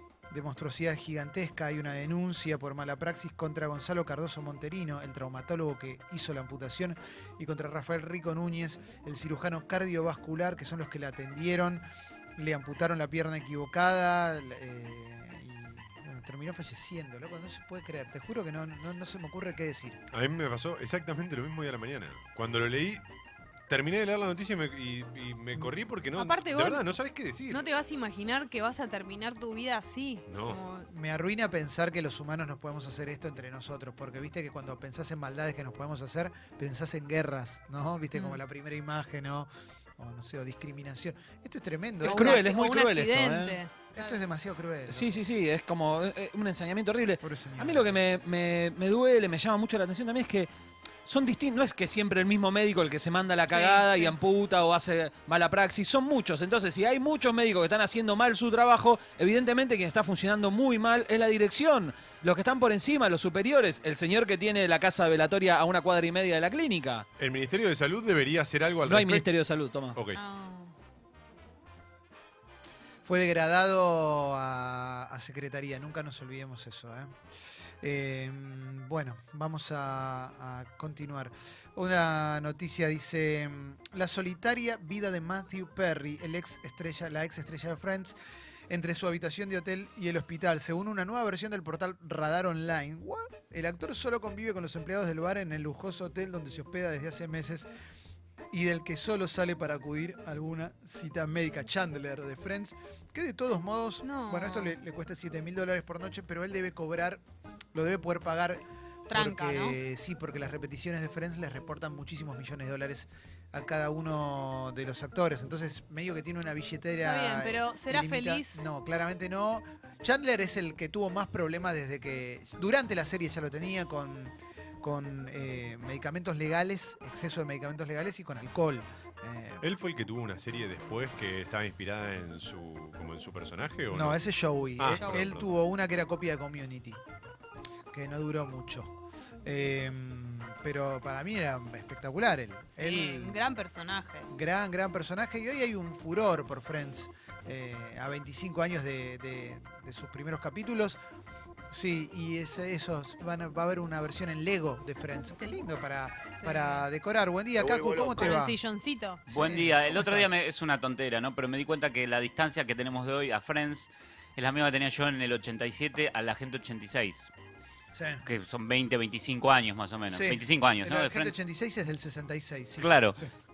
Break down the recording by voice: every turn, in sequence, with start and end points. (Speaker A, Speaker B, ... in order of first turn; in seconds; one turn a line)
Speaker A: 0.3-11.8
Speaker A: 12.3-20.0
Speaker B: 20.1-23.0
Speaker B: 23.7-27.6
Speaker C: 26.1-26.8
Speaker C: 27.5-30.9
Speaker B: 30.3-30.6
Speaker A: 30.9-42.4
Speaker C: 38.1-38.4
Speaker D: 42.0-43.6
Speaker C: 42.0-44.1
Speaker A: 43.9-45.2
Speaker D: 44.9-50.5
Speaker A: 47.2-47.9
Speaker D: 51.0-67.0
Speaker C: 53.5-54.1
Speaker B: 67.2-69.3
Speaker D: 68.8-70.0
Speaker C: 70.1-70.7
Speaker A: 73.0-77.1
Speaker A: 77.8-88.2
Speaker A: 88.7-97.7
Speaker A: 98.5-107.2
Speaker C: 104.0-104.8
Speaker A: 107.7-129.6
Speaker C: 109.1-109.8
Speaker C: 117.0-118.7
Speaker B: 129.6-134.2
Speaker A: 133.9-137.0
Speaker B: 134.8-135.5
Speaker C: 135.0-135.2
Speaker A: 137.9-143.4
Speaker C: 142.7-144.3
Speaker A: 144.3-151.0
Speaker A: 151.7-158.6
Speaker C: 156.4-156.8
Speaker C: 158.2-159.2
Speaker A: 159.3-160.3
Speaker E: 159.3-167.3
Speaker A: 167.9-168.2
Speaker E: 168.2-171.4
Speaker A: 170.1-173.3
Speaker E: 172.8-173.2